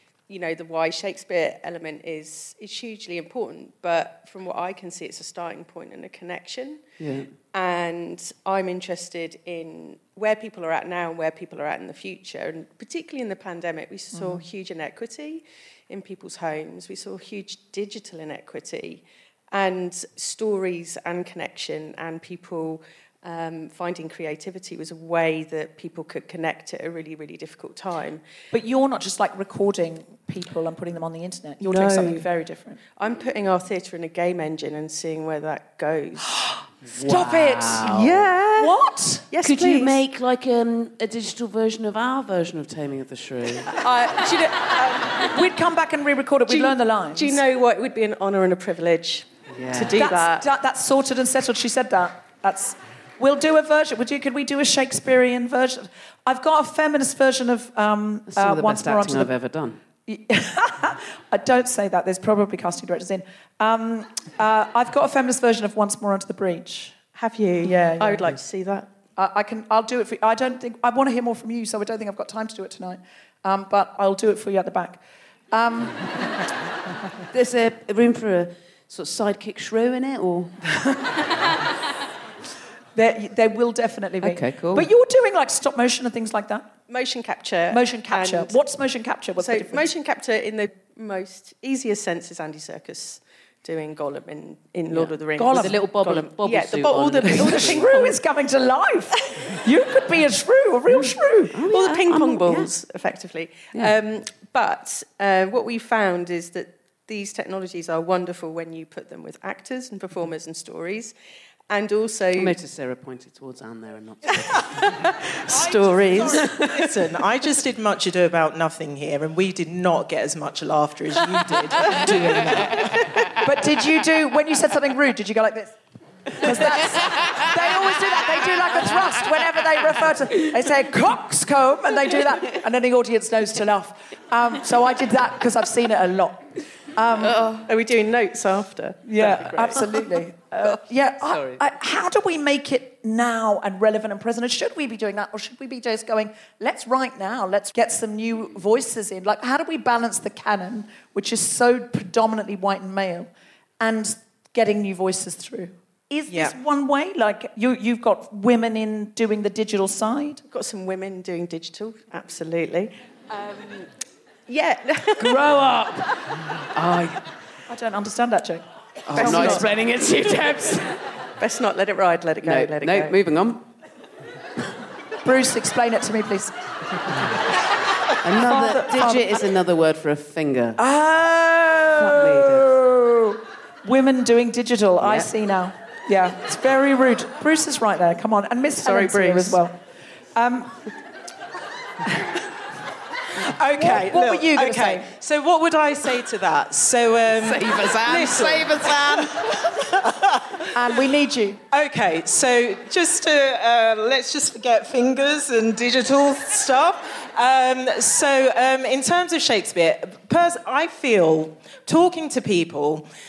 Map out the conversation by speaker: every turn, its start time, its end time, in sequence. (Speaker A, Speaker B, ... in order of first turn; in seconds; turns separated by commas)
Speaker A: 0.3-6.9, Speaker B: 7.0-7.3, Speaker A: 7.5-28.2, Speaker C: 14.1-14.5, Speaker C: 28.5-32.8, Speaker A: 31.6-32.3, Speaker A: 32.9-36.4, Speaker B: 36.9-38.3, Speaker C: 36.9-39.3, Speaker A: 37.9-38.7, Speaker A: 39.3-40.0, Speaker B: 39.4-43.7, Speaker C: 43.8-47.4, Speaker A: 46.5-50.5, Speaker B: 49.5-50.1, Speaker C: 49.7-59.3, Speaker B: 58.3-59.8, Speaker C: 60.0-67.0, Speaker A: 67.2-68.9, Speaker C: 67.6-68.3, Speaker C: 69.2-75.0, Speaker C: 75.5-76.2, Speaker B: 77.3-80.5, Speaker C: 82.9-86.7, Speaker B: 84.2-84.9, Speaker A: 86.9-88.5, Speaker C: 87.7-89.9, Speaker A: 89.4-98.2, Speaker B: 94.9-97.9, Speaker C: 95.4-95.8, Speaker C: 97.3-101.6, Speaker B: 101.5-102.7, Speaker A: 101.6-111.1, Speaker A: 111.7-112.5, Speaker B: 112.4-114.8, Speaker A: 114.7-116.7, Speaker D: 115.6-122.8, Speaker B: 116.1-116.7, Speaker B: 121.8-122.8, Speaker C: 122.0-122.7, Speaker C: 123.4-125.8, Speaker C: 126.4-137.4, Speaker B: 127.0-127.3, Speaker A: 137.4-140.0, Speaker C: 139.0-153.3, Speaker B: 141.2-141.6, Speaker C: 153.8-160.4, Speaker D: 156.3-156.6, Speaker A: 160.5-163.9, Speaker A: 164.5-165.4, Speaker C: 165.2-165.9, Speaker B: 166.7-167.2, Speaker C: 167.7-169.7, Speaker B: 169.1-170.8, Speaker A: 169.1-169.7, Speaker A: 170.2-173.2, Speaker B: 172.4-173.7, Speaker C: 175.2-176.5, Speaker B: 178.2-180.8, Speaker C: 178.4-179.4, Speaker C: 180.8-189.8, Speaker B: 182.0-182.7, Speaker B: 185.0-185.3, Speaker B: 188.8-189.6, Speaker C: 190.3-190.8, Speaker D: 193.6-200.6, Speaker C: 193.6-195.1, Speaker B: 197.3-199.4, Speaker C: 200.7-201.6, Speaker D: 201.7-213.1